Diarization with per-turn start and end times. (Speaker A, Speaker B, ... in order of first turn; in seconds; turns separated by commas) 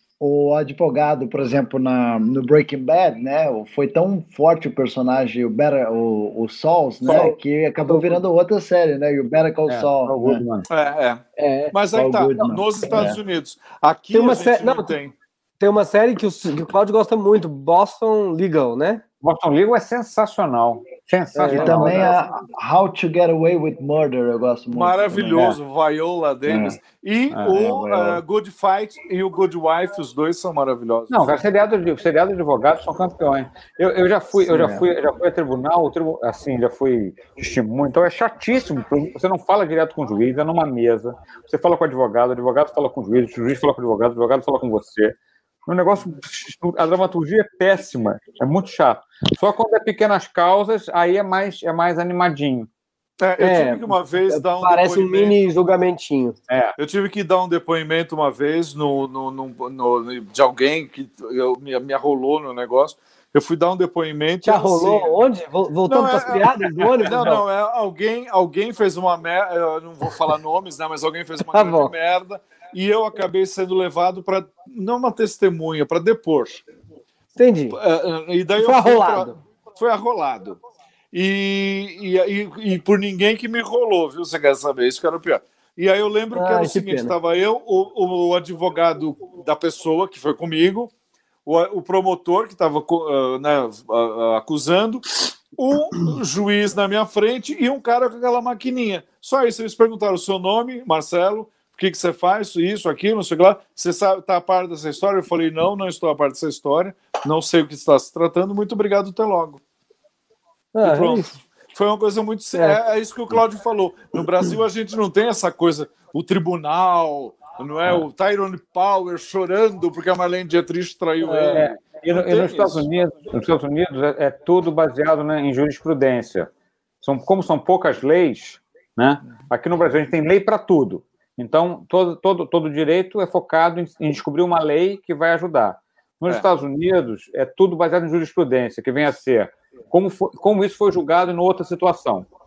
Speaker A: 0.2-10.4, Speaker B: 7.0-8.2, Speaker C: 9.7-10.7, Speaker D: 10.7-15.1, Speaker B: 11.4-11.8, Speaker A: 11.9-13.2, Speaker B: 14.1-14.9, Speaker B: 15.6-19.0, Speaker C: 19.2-22.1, Speaker B: 21.4-22.1, Speaker A: 21.5-25.4, Speaker D: 24.7-31.4, Speaker C: 25.3-25.6, Speaker C: 26.5-26.8, Speaker C: 27.3-28.2, Speaker C: 31.1-52.7, Speaker A: 34.5-34.9, Speaker D: 53.2-55.4, Speaker B: 53.4-56.4, Speaker C: 56.5-56.8, Speaker D: 56.8-65.2, Speaker B: 64.4-67.4, Speaker D: 65.9-76.6, Speaker B: 71.5-71.9, Speaker B: 77.4-77.8, Speaker D: 77.7-80.6, Speaker B: 78.6-79.4, Speaker D: 81.1-90.9, Speaker B: 86.3-87.2, Speaker D: 91.5-109.6, Speaker B: 110.8-111.4, Speaker D: 110.8-122.9, Speaker B: 112.5-112.8, Speaker C: 121.2-126.5, Speaker C: 127.0-142.3